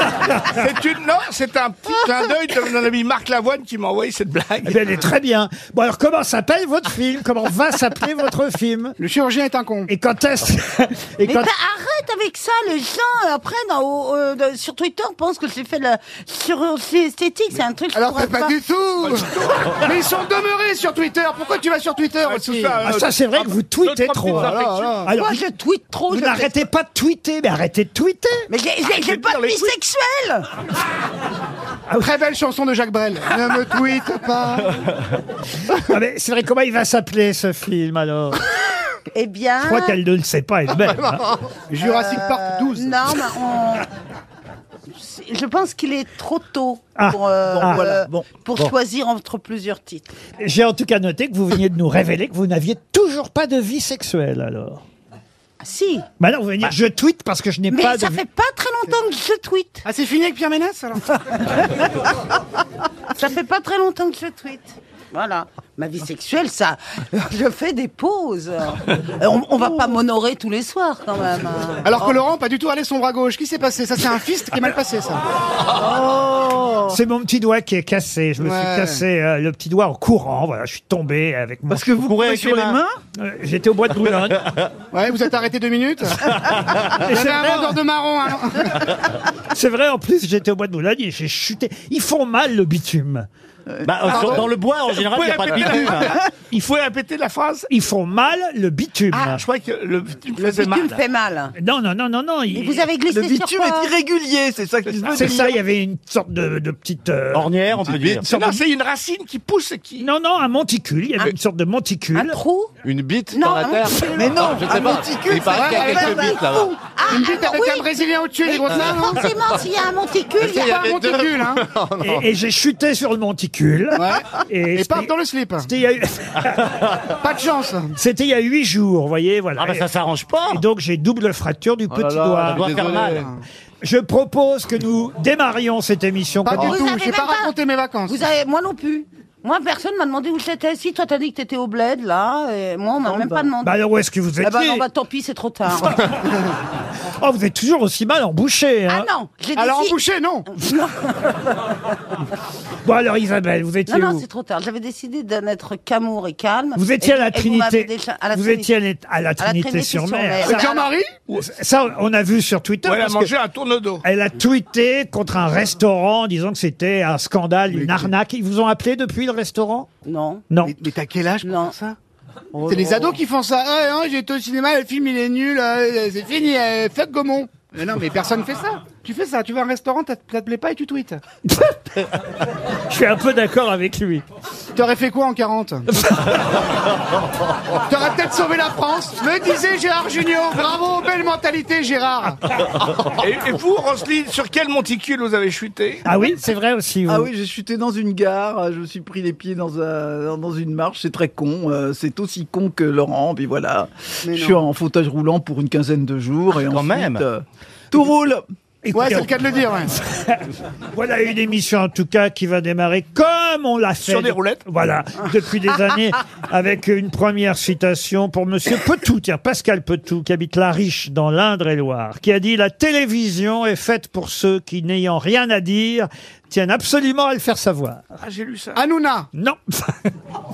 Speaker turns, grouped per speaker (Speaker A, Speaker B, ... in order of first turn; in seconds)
Speaker A: 0.5-4.9, 19.0-19.8, 22.2-25.1, 28.9-29.8, 94.6-97.7, 99.1-101.0, 104.9-105.4, 108.3-110.1, 162.8-164.0, 193.2-196.0, 214.0-214.6, 228.2-228.8
Speaker B: 4.7-9.0, 9.9-11.5, 22.8-25.4, 26.1-28.5, 35.7-38.4, 39.6-41.4, 47.0-48.0, 50.4-54.8, 56.2-58.2, 76.9-82.0, 83.2-84.5, 87.0-87.8, 89.5-93.3, 97.7-99.5, 101.6-102.9, 105.1-107.5, 110.0-112.4, 122.0-127.0, 128.0-129.9, 130.4-132.8, 133.8-136.9, 143.6-144.8, 146.0-146.3, 147.2-149.1, 152.8-154.3, 156.8-160.6, 161.4-163.3, 164.0-169.9, 170.5-170.8, 181.5-181.9, 182.9-184.2, 185.9-186.7, 196.1-197.3, 208.8-228.0, 229.3-230.1
Speaker C: 9.0-9.9, 17.9-22.8, 24.4-25.1, 32.0-34.9, 41.7-43.0, 59.9-61.2, 71.8-75.2, 78.4-79.0, 84.9-88.9, 94.1-94.4, 115.5-116.1, 117.1-119.2, 120.4-121.6, 123.9-125.7, 127.1-128.0, 132.7-133.4, 136.5-138.2, 149.6-150.5, 160.4-161.1, 167.7-168.1, 170.6-172.0, 172.7-181.2, 184.8-185.9, 187.9-192.4, 204.2-204.6, 208.9-209.9, 228.8-229.3
Speaker D: 11.2-18.6, 25.1-26.6, 28.5-30.5, 39.1-40.0, 41.8-43.9, 44.9-50.1, 55.6-56.1, 57.7-59.9, 63.1-72.1, 100.4-101.5, 102.5-103.9, 112.1-112.7, 113.3-114.2, 116.0-120.7, 136.7-137.5, 138.1-143.8, 144.4-146.3, 148.9-151.4, 153.9-158.7, 159.4-160.9, 170.1-170.4, 171.4-171.8, 172.5-173.2
Speaker E: 47.5-48.3, 81.7-83.0, 93.7-94.2, 103.1-105.6, 108.2-108.6, 114.2-116.7, 197.1-208.4
Speaker F: 75.8-76.2, 107.7-108.3, 112.8-116.7, 120.4-122.3, 131.9-133.3
Speaker G: 76.1-76.8, 82.0-82.8, 93.8-96.1, 107.4-108.3, 129.6-130.6, 132.4-133.2, 206.7-207.2